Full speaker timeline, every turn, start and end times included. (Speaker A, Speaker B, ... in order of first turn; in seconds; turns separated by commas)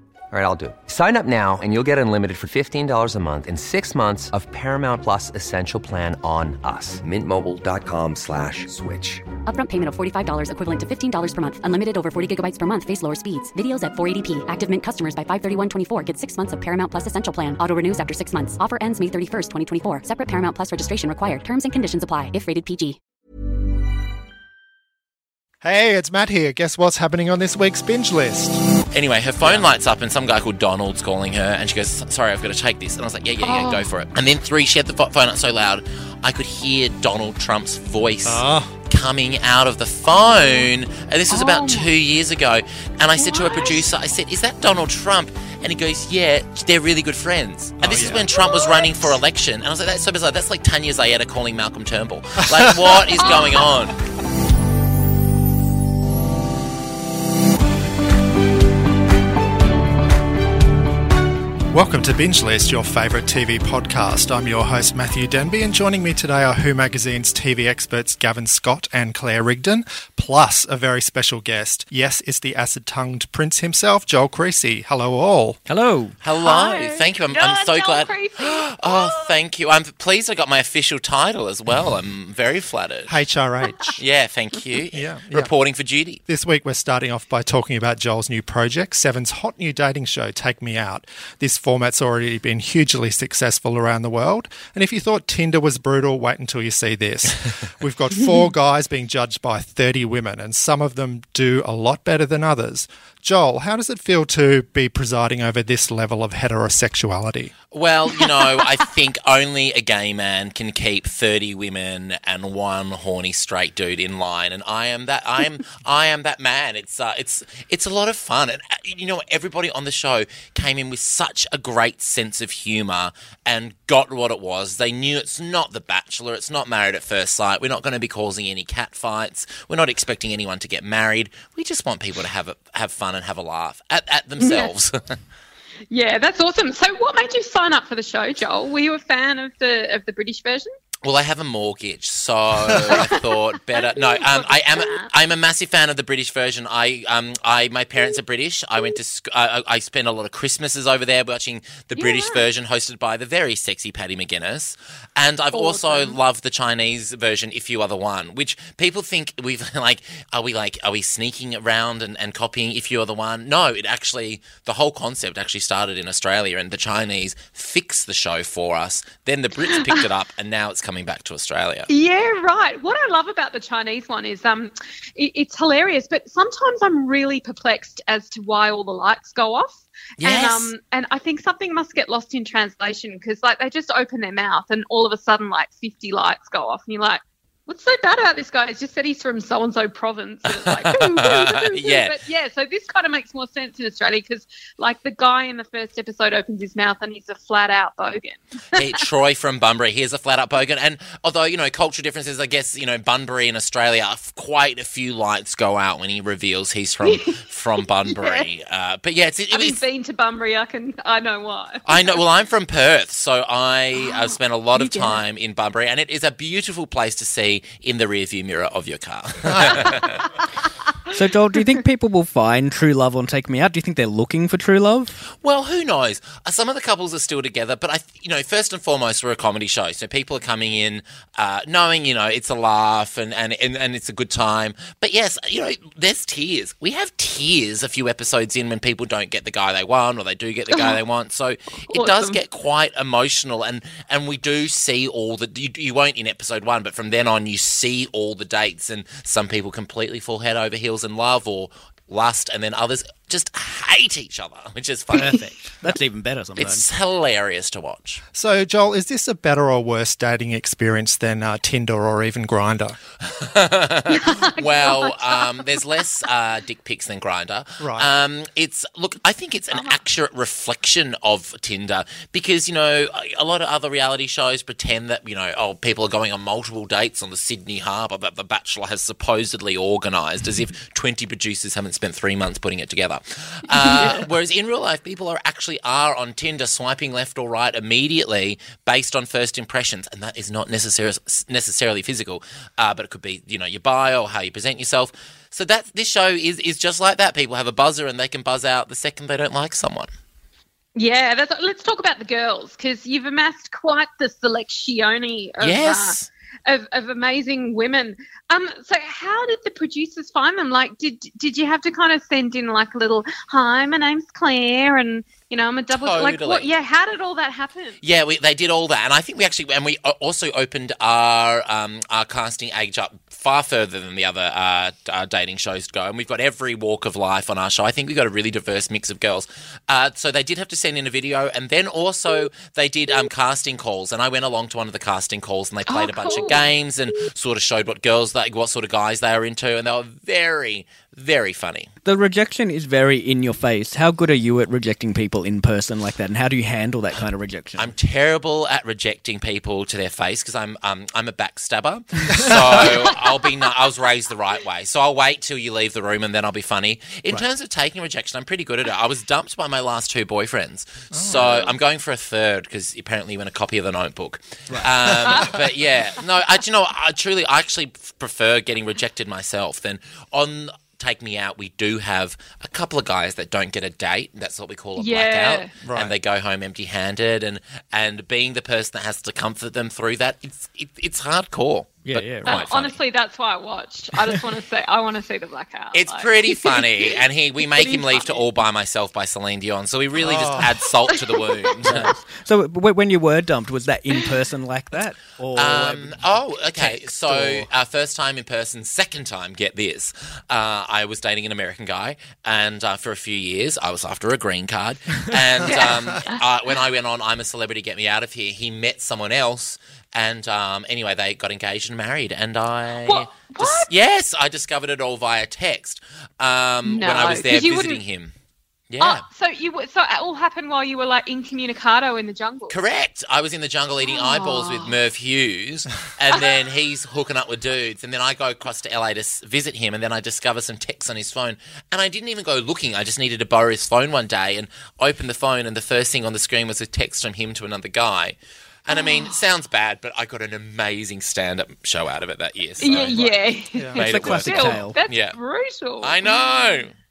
Speaker A: 0.3-9.3, Speaker B: 9.4-23.0, Speaker C: 25.6-28.6, Speaker D: 28.9-54.0, Speaker C: 29.4-29.7, Speaker E: 33.4-33.9, Speaker C: 38.2-38.8, Speaker E: 40.2-40.6, Speaker E: 41.3-41.9, Speaker E: 43.2-43.9, Speaker C: 47.8-48.2, Speaker E: 48.1-49.1, Speaker E: 53.1-53.6, Speaker C: 61.7-75.6, Speaker F: 75.7-76.2, Speaker D: 76.2-83.2, Speaker E: 76.4-79.3, Speaker C: 83.1-84.0, Speaker D: 84.0-86.2, Speaker C: 84.9-85.5, Speaker C: 86.3-107.5, Speaker D: 107.7-135.0, Speaker E: 108.2-108.7, Speaker E: 134.4-134.7, Speaker E: 135.9-140.7, Speaker D: 141.0-171.9, Speaker E: 142.8-145.1, Speaker E: 152.0-152.5, Speaker E: 155.5-156.2, Speaker E: 169.7-170.0, Speaker E: 171.9-198.8, Speaker D: 180.2-180.7, Speaker D: 190.5-192.2, Speaker D: 198.7-209.8, Speaker E: 207.0-207.4, Speaker E: 208.1-208.5, Speaker E: 209.5-212.2, Speaker D: 211.9-220.2, Speaker E: 214.0-215.2, Speaker E: 219.6-220.4, Speaker F: 221.1-225.1, Speaker D: 225.4-255.9, Speaker E: 240.7-241.0, Speaker E: 241.9-242.4, Speaker F: 255.1-256.9, Speaker D: 256.6-258.2, Speaker C: 258.3-263.0, Speaker D: 263.2-300.1, Speaker E: 264.1-265.7, Speaker C: 267.8-268.1, Speaker E: 269.7-270.0, Speaker E: 283.8-284.2, Speaker E: 300.9-318.0, Speaker D: 305.6-306.3, Speaker D: 315.9-316.7, Speaker D: 318.0-341.9, Speaker E: 335.9-336.7, Speaker F: 342.1-347.9, Speaker D: 347.8-383.0, Speaker C: 352.4-352.7, Speaker C: 361.1-361.8, Speaker C: 365.0-365.4, Speaker E: 375.0-375.7, Speaker C: 375.9-376.1, Speaker F: 382.1-382.6, Speaker E: 382.5-388.4, Speaker D: 385.9-392.1, Speaker C: 390.2-390.7, Speaker E: 391.1-391.5, Speaker F: 391.9-397.7, Speaker D: 395.6-418.3, Speaker E: 405.6-406.4, Speaker E: 413.1-413.9, Speaker E: 416.9-418.0, Speaker D: 418.9-419.2, Speaker E: 419.0-422.8, Speaker D: 422.7-443.4, Speaker E: 424.1-424.9, Speaker E: 438.9-439.4, Speaker E: 442.8-446.9, Speaker D: 444.0-445.4, Speaker F: 444.0-445.0, Speaker D: 446.0-446.9